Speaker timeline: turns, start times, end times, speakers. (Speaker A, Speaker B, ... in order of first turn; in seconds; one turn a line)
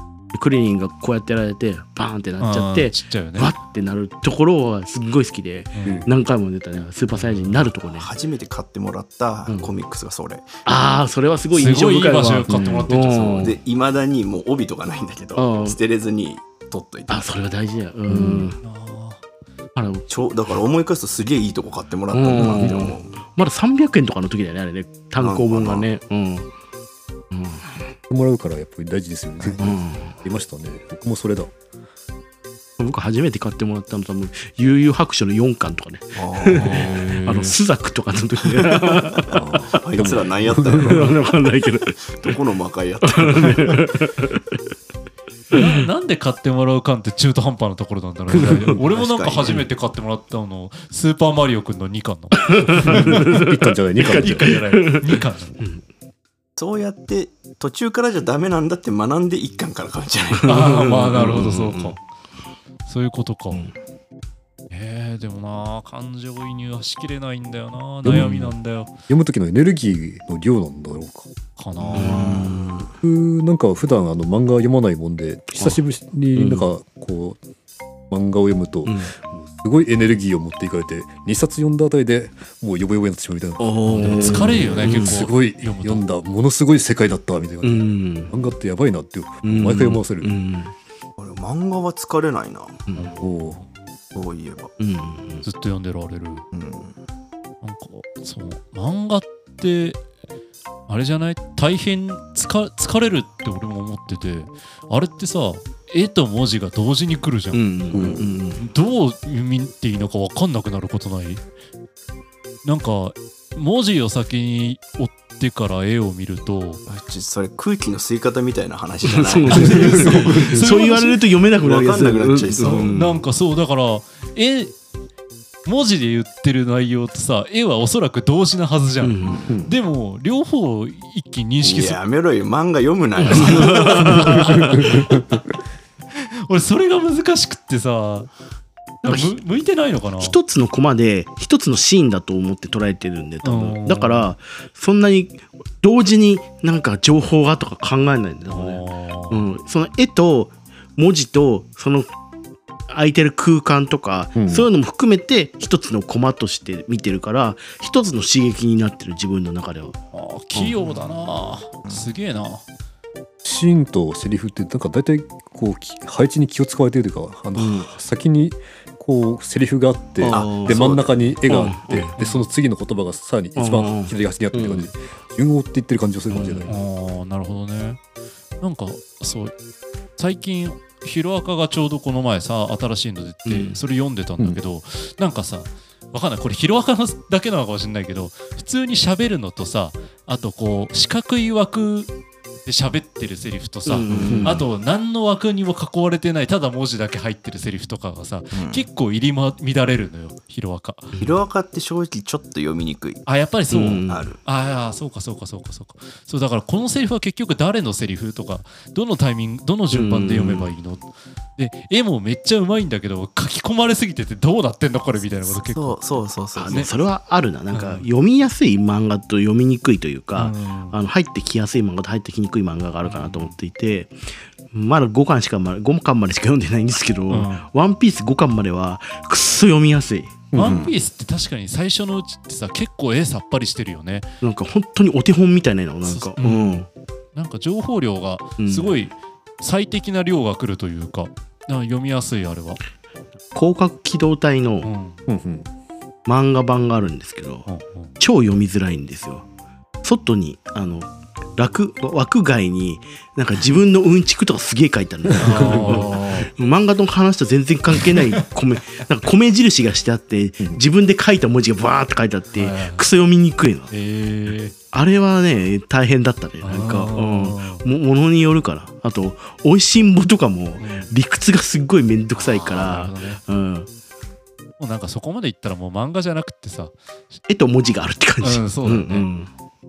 Speaker A: 0.3-8.1
Speaker B: 2.4-3.5
Speaker B: 5.8-6.0
Speaker B: 7.2-7.7
Speaker C: 8.0-10.6
Speaker A: 10.6-13.6
Speaker B: 11.5-13.5
Speaker D: 12.5-12.8
Speaker C: 13.4-17.4
Speaker A: 15.4-15.8
Speaker A: 17.1-18.6
Speaker D: 18.1-18.5
Speaker B: 18.6-19.2
Speaker A: 19.8-20.0
Speaker C: 20.1-23.1
Speaker A: 22.1-26.5
Speaker D: 22.4-22.8
Speaker C: 25.2-25.9
Speaker A: 27.3-27.9
Speaker D: 28.1-31.5
Speaker A: 29.6-30.2
Speaker A: 32.8-39.8
Speaker C: 36.1-37.0
Speaker B: 36.5-37.6
Speaker C: 38.6-41.2
Speaker D: 39.3-41.1
Speaker A: 40.7-42.2
Speaker C: 42.0-43.7
Speaker A: 43.0-44.6
Speaker B: 45.5-53.4
Speaker A: 45.5-45.8
Speaker D: 48.3-48.6
Speaker C: 48.8-49.6
Speaker A: 52.4-55.8
Speaker D: 52.8-54.5
Speaker B: 54.0-55.6
Speaker C: 56.6-60.6
Speaker A: 60.4-62.0
Speaker B: 60.5-62.0
Speaker B: 62.9-63.7
Speaker B: 64.7-68.9
Speaker D: 68.0-68.5
Speaker D: 69.1-71.3
Speaker B: 71.6-72.5
Speaker C: 71.8-72.5
Speaker A: 71.9-72.9
Speaker D: 73.0-77.4
Speaker A: 76.3-76.7
Speaker D: 78.1-90.3
Speaker A: 78.8-79.1
Speaker A: 83.6-85.2
Speaker B: 83.9-86.0
Speaker A: 87.6-88.3
Speaker A: 89.4-90.7
Speaker C: 91.2-92.8
Speaker A: 92.9-93.1
Speaker B: 93.0-93.6
Speaker D: 93.2-93.6
Speaker C: 94.1-94.7
Speaker A: 94.8-95.4
Speaker B: 95.4-96.5
Speaker C: 96.5-97.0
Speaker B: 97.6-100.0
Speaker B: 100.9-107.6
Speaker A: 107.5-108.6
Speaker D: 107.9-108.3
Speaker B: 108.6-111.4
Speaker B: 112.6-116.8
Speaker C: 116.9-120.4
Speaker A: 119.0-123.2
Speaker B: 119.5-121.2
Speaker D: 119.7-120.0
Speaker C: 121.6-123.0
Speaker B: 122.6-124.8
Speaker B: 125.6-132.0
Speaker A: 129.0-129.5
Speaker C: 129.2-129.6
Speaker C: 131.6-134.7
Speaker A: 133.2-134.7
Speaker B: 133.3-135.1
Speaker D: 134.5-135.3
Speaker B: 136.2-138.3
Speaker B: 139.0-140.4
Speaker A: 139.0-139.4
Speaker A: 140.2-152.1
Speaker B: 143.4-144.3
Speaker B: 148.5-149.5
Speaker A: 152.9-160.0
Speaker D: 154.4-154.7
Speaker B: 160.1-162.6
Speaker D: 163.4-176.8
Speaker A: 167.6-167.9
Speaker A: 170.2-172.1
Speaker C: 170.3-171.1
Speaker B: 172.2-172.4
Speaker A: 173.6-174.9
Speaker A: 176.3-176.7
Speaker B: 176.7-178.0
Speaker B: 178.6-179.5
Speaker B: 180.2-192.1
Speaker A: 183.5-183.8
Speaker B: 192.6-201.1
Speaker A: 193.9-194.6
Speaker D: 194.1-194.6
Speaker C: 198.5-198.9
Speaker C: 201.2-203.2
Speaker B: 203.3-216.9
Speaker A: 203.7-204.3
Speaker C: 204.1-204.4
Speaker A: 209.9-210.7
Speaker C: 215.4-216.9
Speaker A: 216.6-224.2
Speaker B: 217.7-218.1
Speaker B: 220.4-221.0
Speaker B: 223.0-223.6
Speaker A: 224.7-230.4
Speaker B: 227.3-227.7
Speaker D: 230.5-230.9
Speaker B: 230.5-234.3
Speaker C: 230.6-230.9
Speaker A: 234.4-236.9
Speaker B: 236.1-236.8
Speaker B: 237.3-242.8
Speaker A: 238.6-239.0
Speaker A: 243.6-244.9
Speaker B: 244.8-245.2
Speaker D: 245.3-245.7
Speaker A: 246.3-247.7
Speaker B: 247.7-248.1
Speaker A: 248.2-249.4
Speaker A: 250.0-263.9
Speaker B: 255.4-256.5
Speaker D: 255.5-255.8
Speaker B: 262.6-263.1
Speaker B: 263.9-264.7
Speaker A: 264.9-273.9
Speaker B: 266.6-267.8
Speaker B: 270.8-271.1
Speaker B: 272.4-273.4
Speaker B: 274.8-277.4
Speaker A: 277.5-279.5
Speaker B: 278.4-279.3